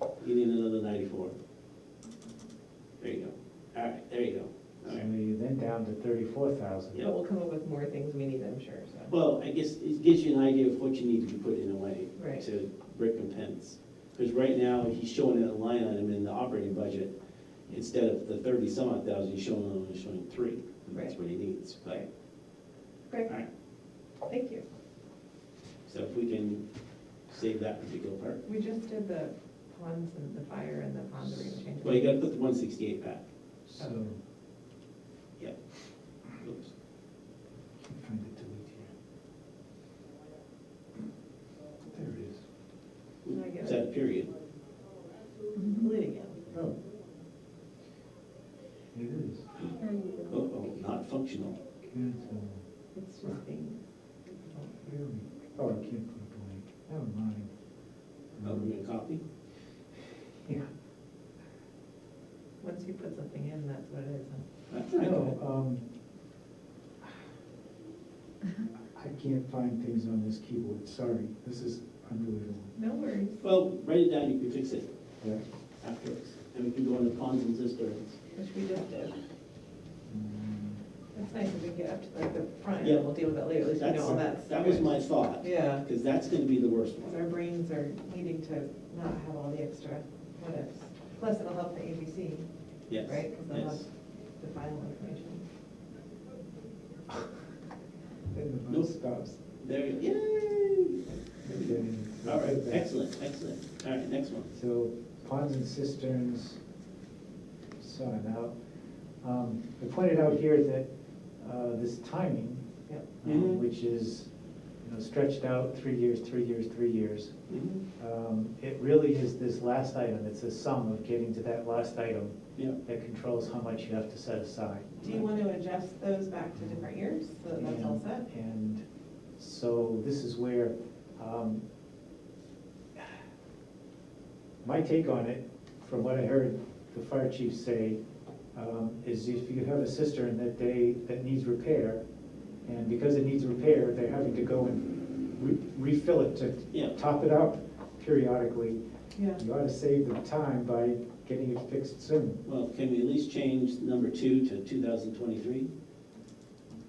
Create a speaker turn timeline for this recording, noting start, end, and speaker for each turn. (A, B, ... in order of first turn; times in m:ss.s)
0:00.2-0:01.4 A
0:03.0-0:05.1 A
0:04.9-0:07.0 B
0:07.0-0:09.1 C
0:09.1-0:17.1 A
0:12.2-0:12.4 C
0:17.7-0:22.0 A
0:24.3-0:24.6 C
0:25.9-0:26.7 A
0:27.3-0:28.4 A
0:28.4-0:32.3 C
0:31.8-0:33.2 A
0:33.7-0:34.2 B
0:36.4-0:36.7 A
0:37.8-0:38.9 B
0:41.9-0:42.4 B
0:43.2-0:44.3 A
0:43.3-0:43.8 C
0:45.6-0:46.2 C
0:48.9-0:49.5 B
0:49.8-0:50.2 C
0:50.3-0:51.6 A
0:51.9-0:52.6 B
0:52.9-0:53.8 C
0:54.5-0:54.8 C
0:54.8-0:57.5 B
0:58.4-0:58.7 B
0:58.4-0:59.2 A
1:00.4-1:00.7 B
1:02.6-1:04.5 C
1:04.7-1:05.4 A
1:05.0-1:05.9 B
1:09.0-1:12.7 B
1:12.8-1:13.4 C
1:13.4-1:14.9 A
1:15.8-1:18.2 A
1:18.4-1:19.2 C
1:20.1-1:20.8 B
1:21.1-1:25.9 C
1:22.8-1:23.1 A
1:23.8-1:27.2 A
1:27.0-1:32.5 C
1:32.9-1:33.8 A
1:33.0-1:35.4 C
1:38.3-1:39.4 B
1:39.6-1:44.6 A
1:41.4-1:42.9 B
1:44.6-1:46.6 B
1:47.8-1:48.5 B
1:49.2-1:50.9 B
1:51.4-1:52.6 B
1:53.2-1:54.3 B
1:53.2-1:53.6 A
1:54.8-1:57.3 B
1:57.5-1:57.8 A
1:58.0-2:05.2 B
2:05.0-2:08.2 C
2:06.6-2:06.9 B
2:07.5-2:08.8 B
2:09.4-2:11.6 B
2:14.6-2:18.0 B
2:18.5-2:22.0 B
2:22.6-2:28.8 B
2:29.2-2:29.4 C
2:29.4-2:32.4 B
2:32.4-2:35.7 A